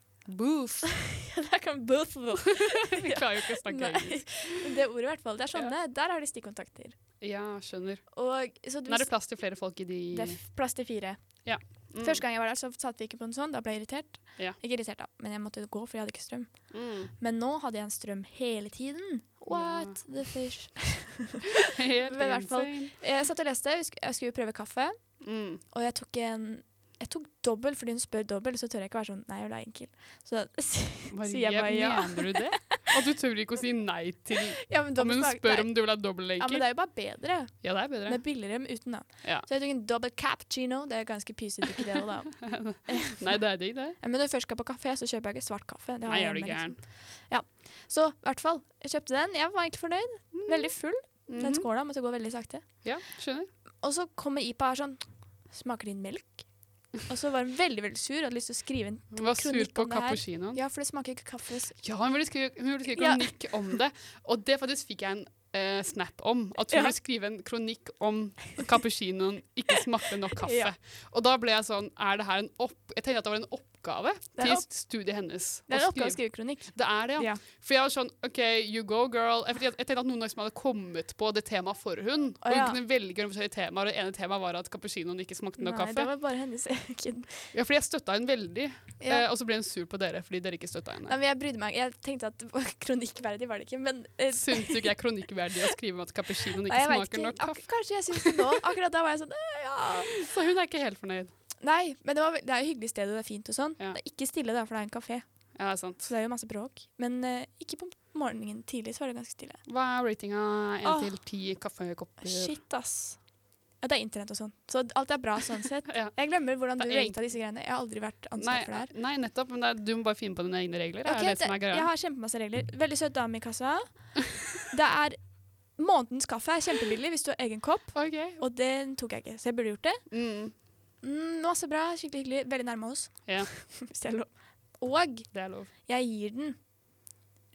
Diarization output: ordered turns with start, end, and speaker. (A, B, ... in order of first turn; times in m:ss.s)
0:00.2-0:00.9 A
0:00.8-0:07.0 B
0:02.5-0:04.7 A
0:07.2-0:08.1 A
0:08.1-0:09.2 B
0:08.8-0:10.4 A
0:10.1-0:11.4 B
0:11.4-0:12.2 A
0:12.0-0:21.4 B
0:16.7-0:17.1 A
0:19.5-0:20.0 A
0:21.7-0:23.0 A
0:22.0-0:25.0 B
0:25.2-0:25.6 A
0:25.7-0:32.8 B
0:31.1-0:36.7 A
0:34.6-0:43.1 B
0:37.6-0:38.2 A
0:42.4-0:44.0 A
0:44.0-0:52.8 B
0:46.0-0:46.8 A
0:50.3-0:50.8 A
0:51.3-0:51.7 A
0:52.8-0:53.5 A
0:53.8-1:01.8 B
0:59.1-1:00.6 A
1:01.8-1:26.1 A
1:03.0-1:03.7 B
1:10.4-1:10.7 B
1:14.4-1:14.7 B
1:15.7-1:17.4 B
1:22.4-1:22.8 B
1:25.6-1:27.5 B
1:27.5-1:31.2 A
1:29.0-1:29.3 B
1:31.1-1:34.9 B
1:34.3-1:38.6 A
1:36.6-1:40.2 B
1:40.0-1:41.3 A
1:41.6-1:45.2 B
1:45.5-1:46.1 A
1:46.0-1:49.6 B
1:49.6-1:52.6 A
1:50.8-1:51.1 B
1:52.2-1:53.2 B
1:53.8-1:58.9 B
1:55.9-1:57.2 A
1:58.4-2:01.9 A
2:01.0-2:10.1 B
2:07.9-2:08.4 A
2:10.1-2:10.5 A
2:11.0-2:16.6 B
2:15.3-2:15.7 A